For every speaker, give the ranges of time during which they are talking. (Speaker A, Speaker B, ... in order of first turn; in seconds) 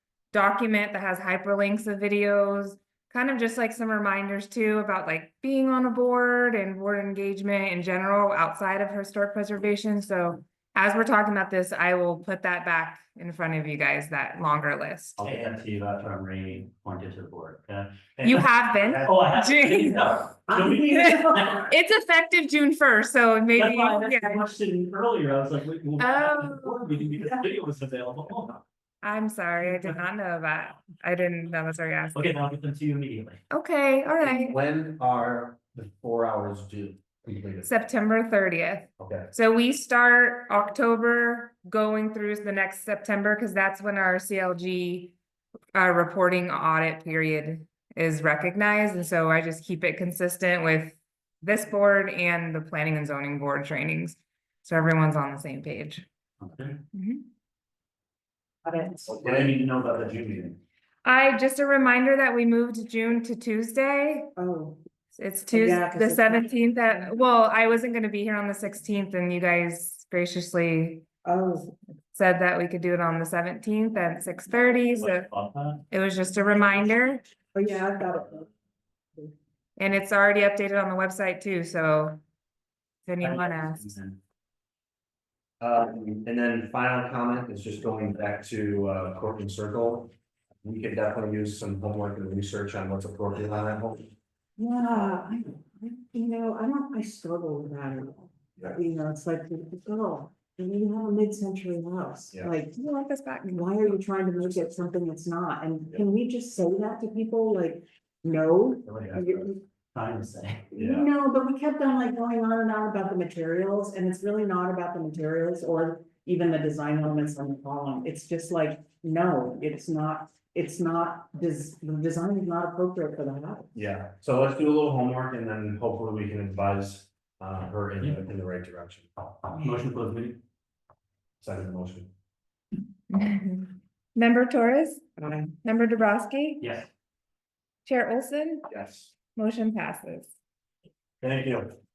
Speaker A: 0.3-15.3, 18.2-20.2, 20.9-24.5, 26.0-26.9, 29.0-32.4, 33.5-34.6, 37.6-45.1, 45.7-56.1, 56.9-57.3, 61.0-64.3, 65.2-71.0, 72.1-75.3, 75.9-77.2, 79.8-82.2, 83.1-83.9, 102.8-104.0, 133.1-135.1, 135.6-136.6, 137.8-138.7, 139.3-140.3
Speaker B: 15.2-21.6, 23.6-28.6, 32.1-33.4, 56.4-56.8, 59.1-60.6, 75.0-75.8, 83.2-84.2, 109.2-110.7, 129.5-130.4, 136.6-136.9
Speaker C: 20.5-21.7, 58.6-59.1, 64.4-64.8, 65.5-66.5, 71.2-71.7, 77.5-78.5, 94.6-102.8, 103.5-109.6, 110.8-123.8, 135.2-135.5
Speaker D: 34.2-37.7, 39.0-39.3, 59.1-59.6, 85.6-90.1, 90.6-94.1, 108.9-109.2, 110.8-111.1, 123.8-129.1, 131.4-132.1, 138.7-139.1, 141.2-141.6